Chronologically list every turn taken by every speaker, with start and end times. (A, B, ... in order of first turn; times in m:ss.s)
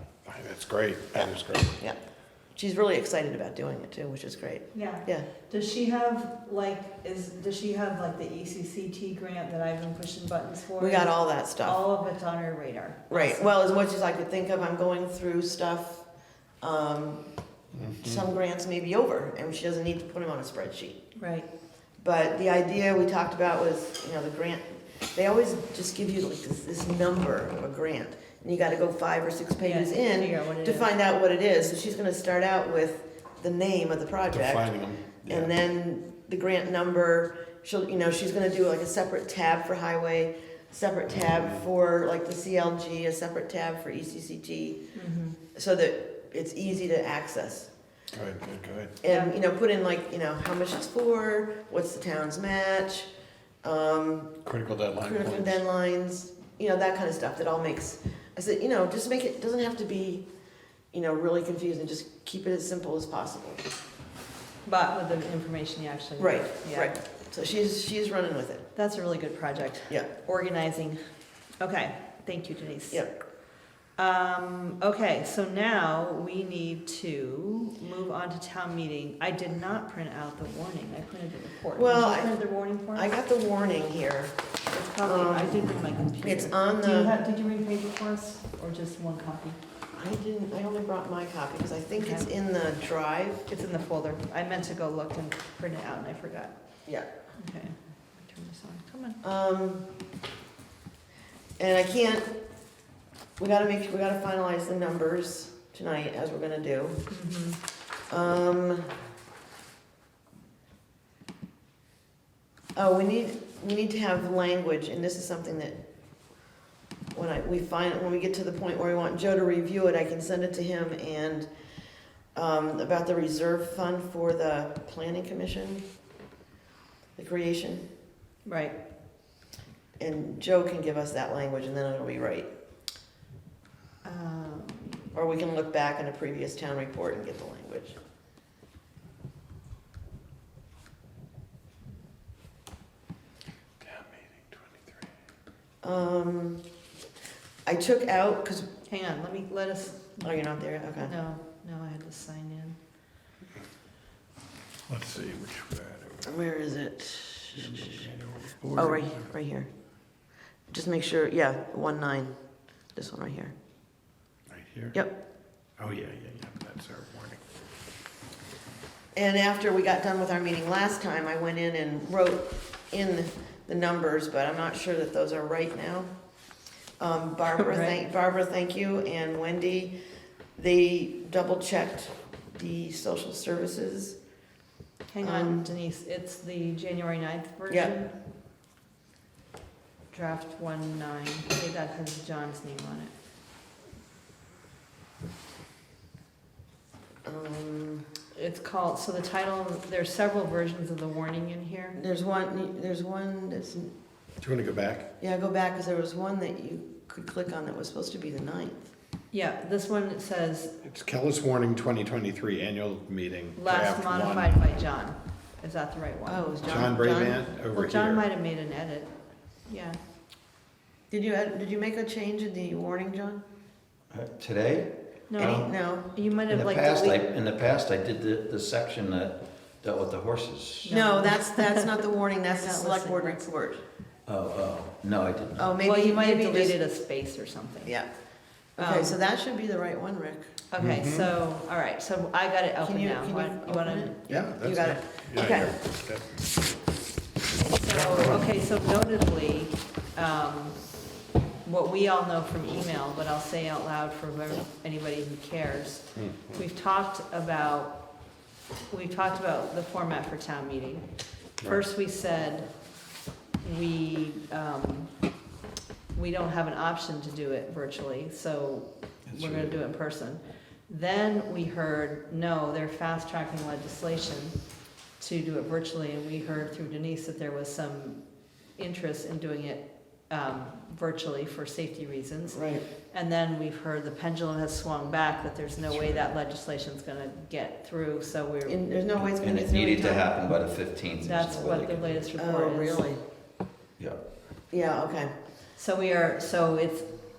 0:00.3-0:01.8 A
0:01.2-0:02.0 B
0:02.6-0:05.3 B
0:04.7-0:13.5 C
0:10.8-0:11.8 B
0:13.1-0:16.0 B
0:16.6-0:17.2 B
0:17.7-0:18.3 A
0:18.0-0:21.0 B
0:21.2-0:21.5 C
0:22.0-0:34.7 B
0:29.6-0:30.9 C
0:34.3-0:35.5 A
0:35.2-0:44.8 B
0:45.0-0:45.4 C
0:45.6-0:47.7 B
0:48.1-0:49.0 A
0:49.0-0:53.1 B
0:53.6-0:54.4 B
0:54.4-0:55.6 A
0:55.0-1:00.3 B
1:00.9-1:03.6 B
1:04.6-1:07.0 C
1:06.2-1:08.7 B
1:08.8-1:11.0 C
1:11.6-1:13.0 C
1:14.0-1:23.1 C
1:21.8-1:22.3 B
1:22.9-1:24.4 B
1:24.7-1:29.6 C
1:25.0-1:25.6 B
1:26.2-1:27.1 B
1:29.9-1:33.5 B
1:32.0-1:32.3 C
1:33.5-1:36.6 C
1:37.4-1:39.2 C
1:39.2-1:39.9 B
1:41.6-1:42.3 B
1:43.4-1:47.0 B
1:47.1-1:47.6 C
1:48.1-1:48.9 B
1:52.8-1:55.8 B
1:57.1-2:01.5 B
2:02.4-2:05.8 B
2:07.2-2:07.9 B
2:08.4-2:08.8 C
2:10.0-2:12.5 B
2:14.0-2:15.1 C
2:15.1-2:18.0 B
2:23.8-2:25.1 A
2:25.8-2:26.6 B
2:27.6-2:28.7 B
2:28.9-2:30.4 C
2:30.2-2:31.1 B
2:31.0-2:32.8 C
2:34.9-2:36.3 A
2:36.2-2:38.0 B
2:37.7-2:39.2 A
2:38.8-2:39.7 B
2:40.7-2:42.4 B
2:43.0-2:43.5 B
2:44.5-2:45.0 A
2:45.8-2:47.4 A
2:49.2-2:56.1 B
2:57.0-2:59.9 B
2:57.5-2:58.0 C
3:00.6-3:04.2 B
3:05.1-3:08.1 C
3:05.2-3:05.7 B
3:10.1-3:13.1 C
3:17.2-3:18.1 B
3:18.4-3:22.0 C
3:22.0-3:23.9 B
3:24.4-3:25.1 A
3:25.2-3:28.9 B
3:29.3-3:30.7 C
3:30.8-3:34.5 A
3:33.6-3:36.5 C
3:36.3-3:37.4 B
3:36.6-3:38.2 A
3:37.7-3:39.1 C
3:39.7-3:40.0 C
3:41.1-3:43.4 B
3:44.1-3:50.9 D
3:45.3-3:47.2 C
3:45.4-3:46.1 B
3:50.8-3:53.5 C
3:50.9-3:53.8 B
3:54.3-3:55.7 D
3:55.6-3:56.8 B
3:55.8-3:58.0 C
3:58.8-4:00.5 B
3:58.8-3:59.2 C
4:00.7-4:04.2 C
4:00.8-4:01.3 A
4:02.8-4:05.7 B
4:04.3-4:06.5 A
4:07.6-4:10.8 C
4:08.0-4:08.4 A
4:11.6-4:18.0 C
4:16.2-4:16.6 A
4:18.9-4:21.0 C
4:21.6-4:22.7 C
4:23.6-4:25.1 C
4:26.1-4:34.6 C
4:29.3-4:29.8 D
4:35.2-4:38.2 C
4:38.8-4:48.8 C
4:42.5-4:42.8 B
4:48.6-4:50.2 B
4:49.2-4:52.1 D
4:50.0-4:50.4 C
4:51.2-4:53.1 C
4:52.4-4:53.2 B
4:54.7-4:55.3 B
4:55.8-4:57.1 C